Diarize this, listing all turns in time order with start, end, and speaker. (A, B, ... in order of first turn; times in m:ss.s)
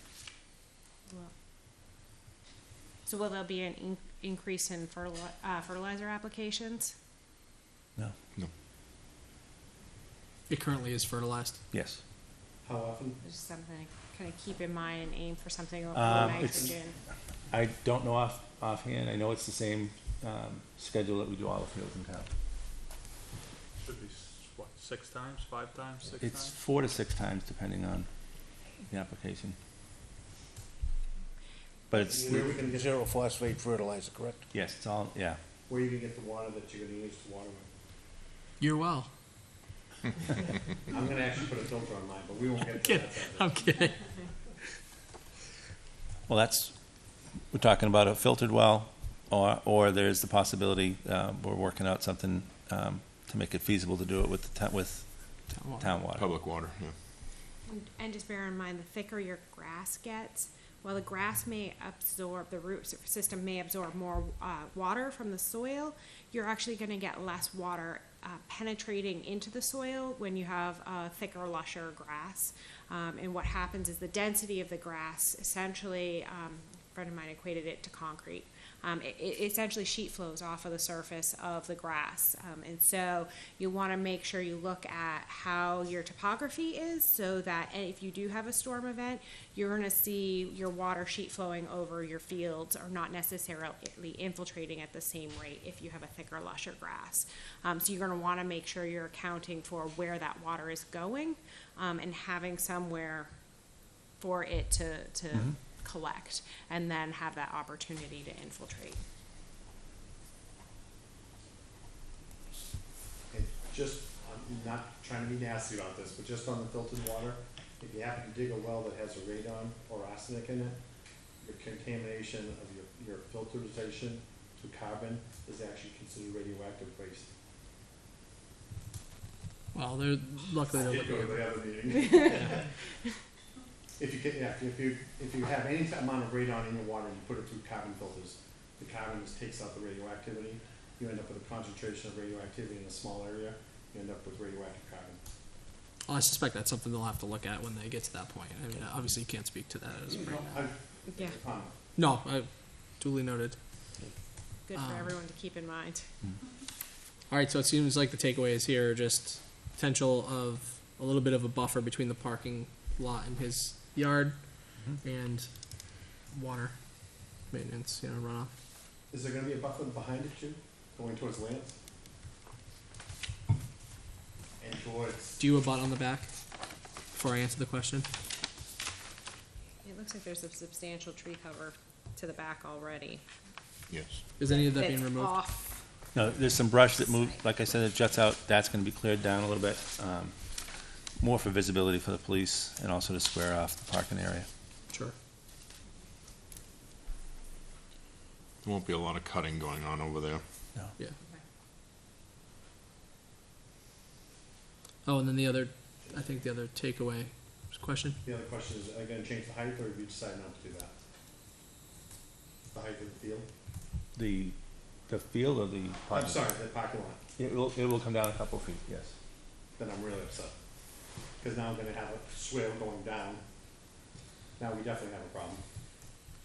0:01.1-0:01.3 A
0:03.0-0:07.0 A
0:10.5-0:11.6 B
0:11.7-0:12.0 C
0:12.6-0:13.2 D
0:13.2-0:17.0 A
0:15.9-0:16.8 C
0:17.5-0:22.3 C
0:23.8-0:26.5 E
0:26.2-0:28.1 C
0:28.9-0:29.6 C
0:31.9-0:32.6 C
0:32.1-0:34.4 F
0:32.2-0:32.9 D
0:34.5-0:35.4 C
0:35.7-0:37.7 D
0:38.6-0:39.1 B
0:40.9-0:43.5 D
0:42.7-0:44.1 B
0:46.3-0:56.3 C
0:55.5-0:56.0 B
0:56.1-0:56.9 G
0:57.6-1:43.4 A
1:44.2-1:49.0 A
1:53.3-2:00.8 D
2:01.4-2:07.3 D
2:09.7-2:11.6 B
2:10.7-2:12.7 D
2:11.9-2:12.6 A
2:14.0-2:25.2 D
2:26.1-2:30.7 B
2:30.2-2:31.7 D
2:31.1-2:31.4 A
2:32.0-2:33.6 B
2:34.6-2:36.1 A
2:34.8-2:35.2 B
2:37.3-2:48.5 B
2:49.1-2:51.8 D
2:54.6-2:55.4 D
2:55.4-2:56.4 B
2:57.1-2:58.1 B
2:59.8-3:03.2 A
3:03.9-3:04.2 G
3:04.4-3:05.4 B
3:04.4-3:05.9 A
3:06.1-3:10.4 C
3:06.9-3:07.4 A
3:11.2-3:14.5 C
3:18.6-3:20.4 G
3:25.0-3:28.2 B
3:28.2-3:30.9 D
3:32.7-3:33.5 D
3:34.2-3:34.6 C
3:35.1-3:36.5 C
3:36.1-3:37.2 D
3:37.4-3:39.1 C
3:39.8-3:40.5 D
3:41.4-3:43.4 D
3:44.6-3:45.6 D